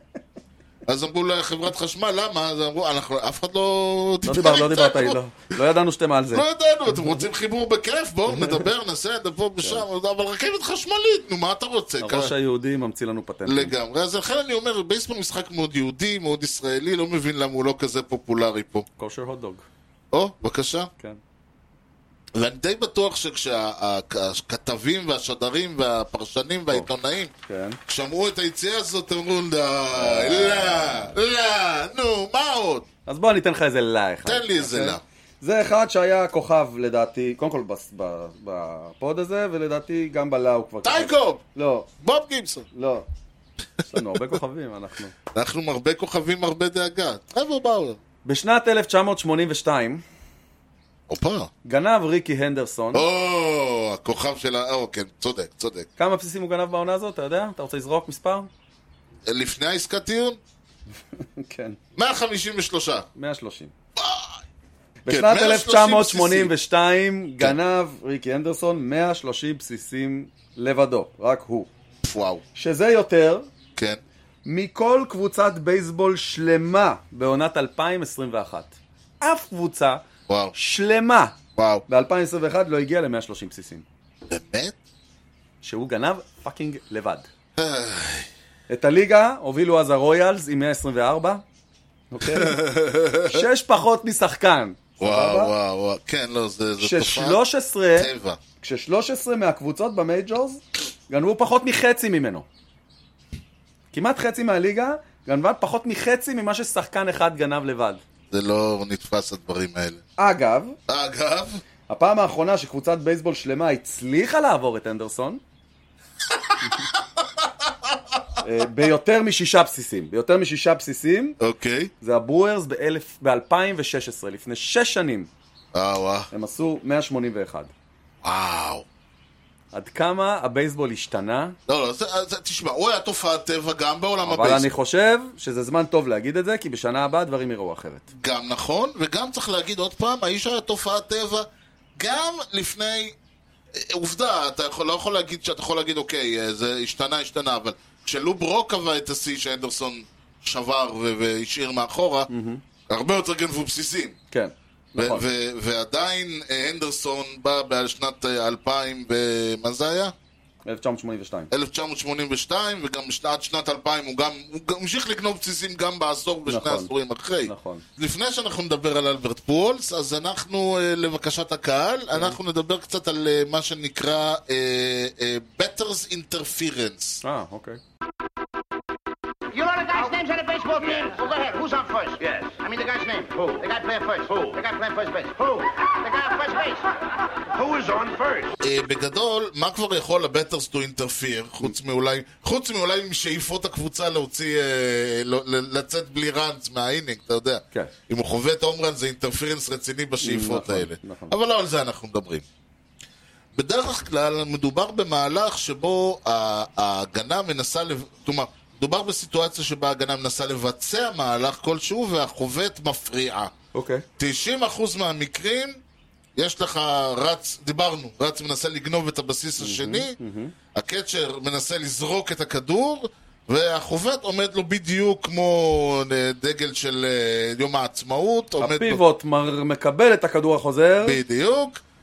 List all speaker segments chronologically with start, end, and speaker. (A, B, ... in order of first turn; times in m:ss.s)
0:00.9-0:05.2 A
0:04.2-0:07.2 B
0:06.3-0:12.3 A
0:08.3-0:08.6 B
0:12.0-0:13.7 B
0:13.4-0:18.8 A
0:19.0-0:19.6 B
0:20.1-0:20.9 A
0:22.3-0:27.3 A
0:27.5-0:27.8 B
0:27.9-0:32.8 A
0:29.9-0:31.1 B
0:33.0-0:41.9 B
0:34.2-0:35.0 A
0:40.8-0:41.4 A
0:42.0-0:42.7 A
0:42.7-0:43.1 B
0:43.8-0:45.1 B
0:45.3-0:48.0 A
0:48.2-0:50.0 B
0:51.1-0:51.5 A
0:51.6-0:53.0 B
0:52.9-0:55.9 A
0:56.0-0:58.5 B
0:59.3-1:00.4 A
1:01.1-1:01.8 B
1:02.0-1:03.1 A
1:03.2-1:03.7 B
1:04.0-1:04.4 A
1:05.0-1:11.7 B
1:05.1-1:06.5 A
1:12.0-1:12.4 A
1:12.5-1:13.5 B
1:14.4-1:21.4 B
1:20.3-1:20.5 A
1:21.6-1:21.8 A
1:21.9-1:23.8 B
1:24.3-1:24.8 A
1:25.6-1:27.3 B
1:27.6-1:28.3 A
1:28.7-1:31.4 B
1:32.1-1:32.6 B
1:32.2-1:33.4 A
1:33.2-1:35.5 B
1:35.0-1:37.4 A
1:36.8-1:42.4 B
1:38.0-1:38.4 A
1:43.9-1:48.0 B
1:48.3-1:50.0 A
1:50.2-1:50.8 B
1:50.9-1:51.6 A
1:51.9-1:55.4 B
1:56.4-1:58.2 A
1:58.4-2:01.4 B
2:01.4-2:01.9 A
2:02.0-2:05.3 B
2:05.7-2:06.3 A
2:06.3-2:07.7 B
2:08.2-2:08.8 A
2:09.7-2:11.6 B
2:11.7-2:14.7 A
2:14.2-2:18.1 B
2:18.1-2:23.1 A
2:23.7-2:32.3 A
2:32.3-2:32.6 B
2:32.9-2:34.2 A
2:34.3-2:35.2 B
2:35.0-2:40.1 A
2:40.6-2:41.5 B
2:41.5-2:57.2 A
2:46.5-2:46.9 B
2:47.4-2:47.8 B
2:52.1-2:52.4 B
2:57.2-2:57.8 B
2:59.5-3:06.9 C
3:07.5-3:08.5 C
3:08.6-3:22.4 A
3:20.2-3:21.3 B
3:23.5-3:33.5 A
3:33.7-3:34.0 B
3:34.2-3:35.8 A
3:36.4-3:40.2 A
3:39.6-3:40.5 B
3:40.7-3:49.0 A
3:48.6-3:51.2 B
3:51.0-3:51.8 A